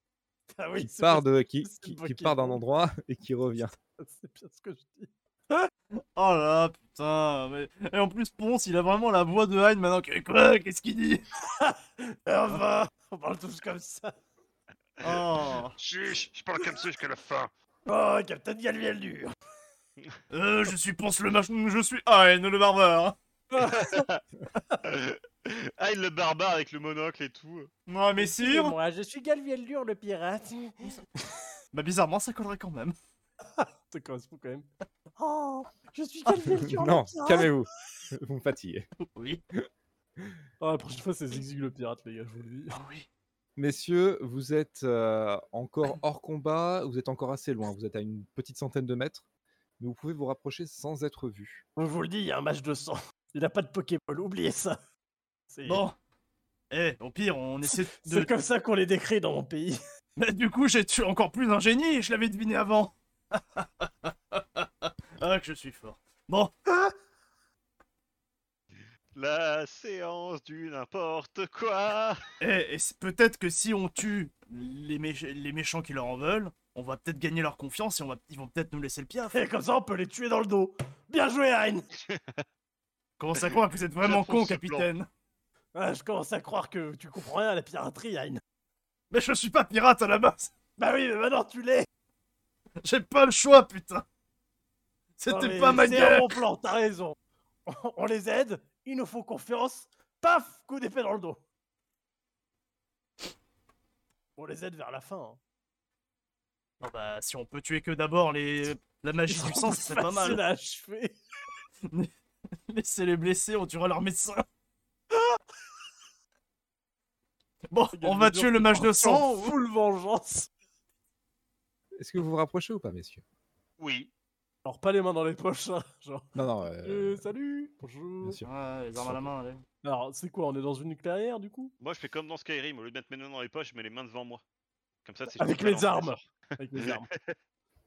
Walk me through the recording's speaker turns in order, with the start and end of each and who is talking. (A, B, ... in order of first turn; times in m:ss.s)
0:00.6-0:02.6 A
0:00.8-0:03.7 B
0:03.6-0:05.7 A
0:06.2-0:11.2 C
0:11.4-0:14.1 A
0:15.0-0:17.5 D
0:15.0-0:15.8 C
0:17.9-0:19.3 A
0:20.3-0:23.2 C
0:23.5-0:24.1 A
0:23.6-0:24.2 D
0:24.8-0:27.7 D
0:27.9-0:28.8 C
0:28.2-0:31.4 A
0:31.7-0:33.0 C
0:33.6-0:34.7 A
0:35.2-0:37.5 A
0:36.6-0:38.9 B
0:39.0-0:39.4 C
0:40.6-0:42.8 A
0:42.7-0:43.1 C
0:43.6-0:49.3 B
0:49.8-0:51.6 B
0:51.8-0:54.8 A
0:55.5-0:55.8 A
0:55.7-0:56.0 C
0:56.7-0:58.3 C
0:57.7-0:59.8 A
1:00.2-1:06.9 C
1:09.2-1:12.2 D
1:12.4-1:19.4 C
1:19.3-1:21.9 A
1:22.1-1:22.4 D
1:23.2-1:25.1 C
1:24.0-1:24.9 D
1:25.8-1:28.4 A
1:29.1-1:30.5 C
1:30.8-1:31.9 A
1:32.8-1:34.0 C
1:35.2-1:36.4 C
1:35.3-1:37.2 A
1:37.7-1:41.4 A
1:44.4-1:45.4 A
1:46.8-1:50.4 C
1:49.3-1:51.2 A
1:51.9-1:52.1 C
1:52.7-1:54.4 C
1:57.7-1:59.6 C
1:57.9-2:00.5 A
2:02.0-2:03.2 B
2:03.8-2:04.1 D
2:04.6-2:08.4 A
2:06.4-2:07.3 B
2:08.2-2:09.3 B
2:08.4-2:09.6 C
2:09.8-2:11.7 A
2:11.8-2:14.4 D
2:15.0-2:17.4 D
2:15.4-2:17.1 A